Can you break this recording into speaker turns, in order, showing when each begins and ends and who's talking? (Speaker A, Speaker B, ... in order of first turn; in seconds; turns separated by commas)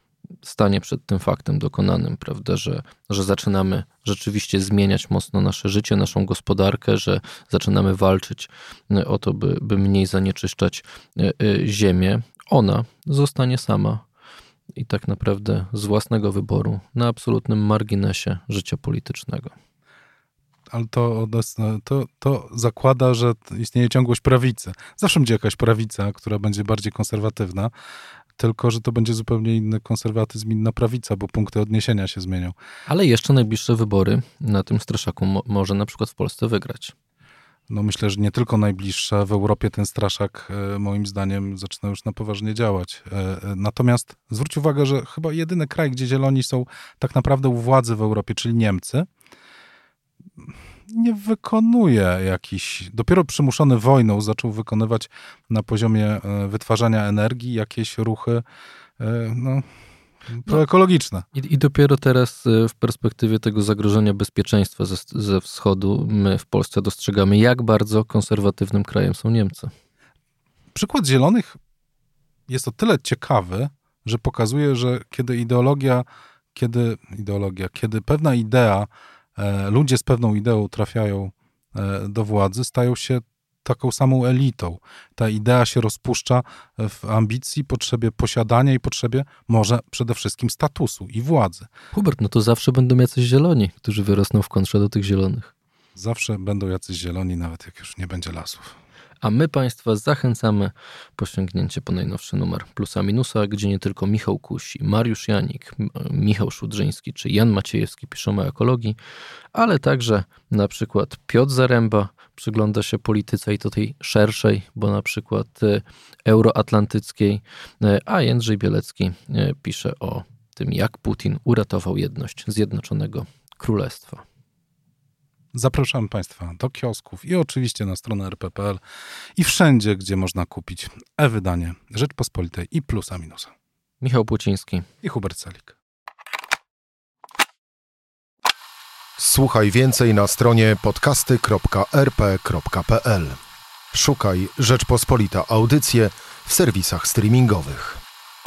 Speaker A: 0.4-14.0, Speaker A: 14.8-19.5, Speaker B: 20.7-27.7, Speaker B: 28.4-32.5, Speaker A: 32.9-36.9, Speaker B: 37.7-49.1, Speaker B: 50.9-58.4, Speaker B: 59.0-59.6, Speaker B: 60.3-61.2, Speaker A: 61.3-69.7, Speaker B: 70.7-71.6, Speaker B: 72.5-91.7, Speaker A: 91.9-95.5, Speaker B: 95.9-98.8, Speaker A: 99.2-109.0, Speaker A: 109.5-124.2, Speaker B: 125.5-128.8, Speaker B: 129.4-133.5, Speaker A: 134.0-134.8, Speaker B: 135.0-135.8, Speaker C: 139.2-143.4, Speaker C: 143.9-148.0